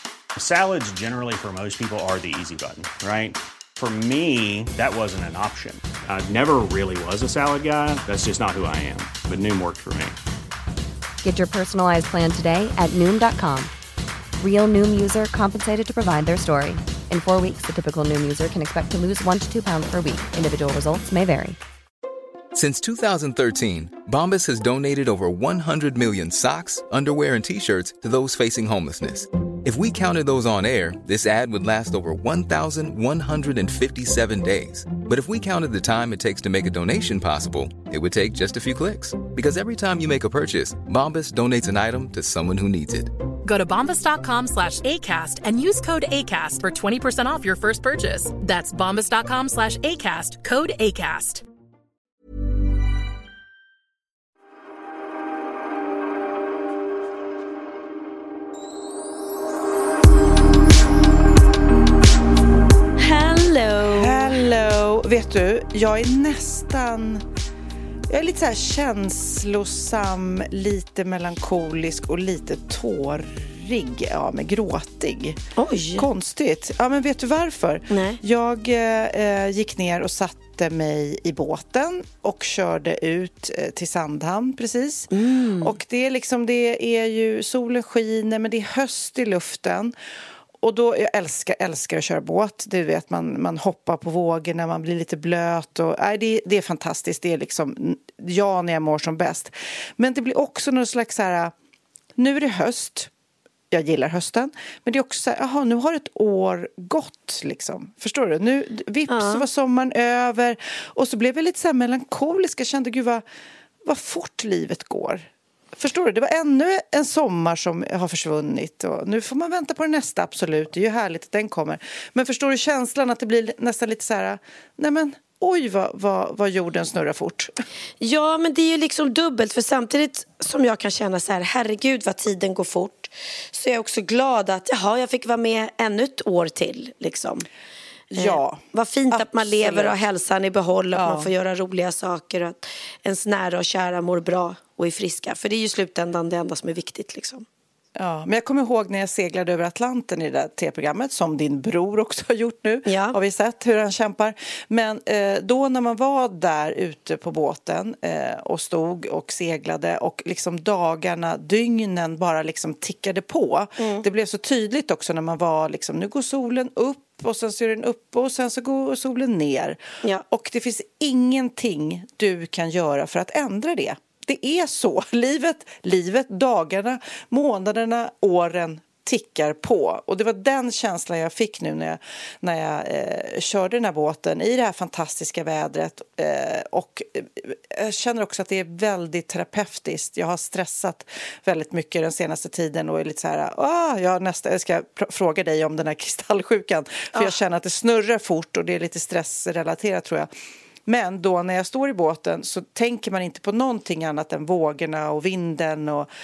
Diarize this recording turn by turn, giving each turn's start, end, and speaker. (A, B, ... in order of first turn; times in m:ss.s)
0:00.4-0:10.2 A
0:11.2-0:13.7 B
0:14.4-0:21.6 B
0:22.5-0:43.1 C
0:43.4-0:51.4 D
1:03.0-1:04.5 E
1:04.0-1:07.2 F
1:08.1-1:15.4 F
1:15.6-1:16.1 E
1:16.0-1:29.9 F
1:17.9-1:18.2 E
1:25.1-1:25.7 E
1:30.6-1:41.5 F
1:42.2-1:43.1 F
1:43.7-1:53.2 F
1:49.1-1:49.4 E
1:53.8-2:07.5 F
2:08.0-2:17.5 E
2:18.1-2:20.0 F
2:18.2-2:27.4 E
2:20.9-2:21.3 F
2:28.0-3:20.3 F
2:32.8-2:33.2 E
2:43.8-2:44.0 E
3:20.8-3:26.1 F